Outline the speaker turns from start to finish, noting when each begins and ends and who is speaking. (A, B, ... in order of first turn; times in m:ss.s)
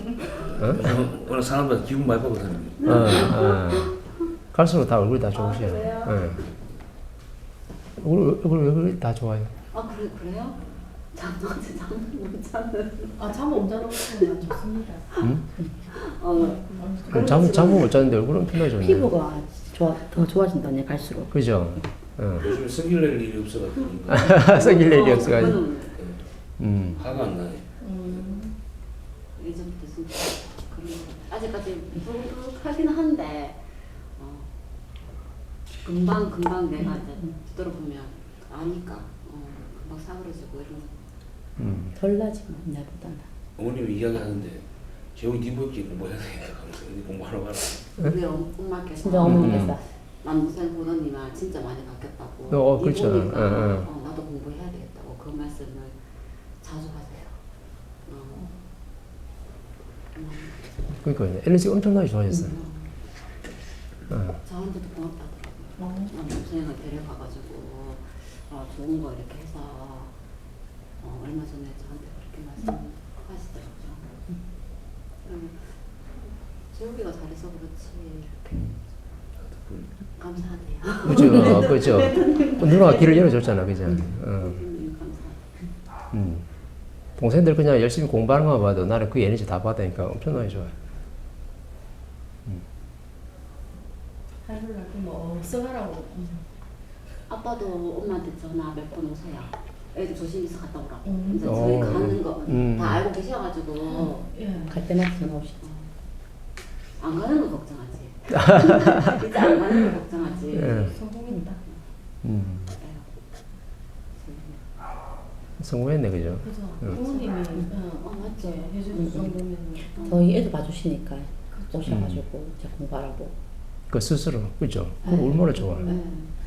0:00.6-0:00.9 A
0:00.6-0:03.4 B
0:02.8-0:03.9 A
0:02.8-0:04.0 C
0:04.5-0:06.4 A
0:05.3-0:06.3 C
0:08.0-0:09.5 A
0:09.7-0:10.6 C
0:11.1-0:14.4 C
0:13.2-0:15.2 D
0:15.9-0:18.1 C
0:16.4-0:17.5 D
0:17.1-0:19.1 A
0:18.6-0:21.3 E
0:21.3-0:22.5 A
0:22.4-0:24.6 B
0:24.1-0:25.6 A
0:24.3-0:26.0 C
0:25.4-0:26.2 B
0:26.6-0:27.0 A
0:26.9-0:27.6 B
0:27.8-0:28.6 D
0:29.4-0:34.5 C
0:35.8-0:41.0 C
0:41.6-0:41.9 A
0:41.9-0:43.3 E
0:43.6-0:47.8 B
0:48.0-0:56.0 C
0:49.0-0:49.8 E
0:49.2-0:49.7 A
0:52.5-0:53.9 A
0:56.6-0:57.4 C
0:58.0-0:58.5 C
1:00.1-1:00.6 C
1:01.0-1:02.6 A
1:02.3-1:02.9 C
1:04.1-1:04.4 A
1:04.3-1:10.1 C
1:05.8-1:06.1 D
1:11.0-1:14.1 C
1:15.2-1:18.8 C
1:19.5-1:19.9 B
1:20.2-1:25.6 C
1:21.0-1:24.6 A
1:21.1-1:21.6 E
1:26.1-1:26.4 A
1:27.2-1:30.7 A
1:34.4-1:36.4 D
1:37.3-1:44.8 C
1:41.0-1:41.8 D
1:41.4-1:43.0 A
1:43.9-1:44.8 D
1:44.7-1:45.6 E
1:45.6-1:45.9 C
1:47.0-1:51.0 C
1:48.4-1:49.1 A
1:50.5-1:50.9 A
1:50.5-1:51.6 D
1:52.2-1:52.7 A
1:52.7-1:53.1 C
1:54.2-1:54.6 C
1:55.6-1:57.0 A
1:56.4-2:00.2 D
1:56.9-1:57.3 C
1:58.0-1:59.1 C
1:58.9-1:59.3 E
2:00.0-2:00.2 C
2:00.0-2:03.3 E
2:01.8-2:02.2 A
2:03.9-2:05.9 A
2:05.1-2:06.0 E
2:05.8-2:06.3 C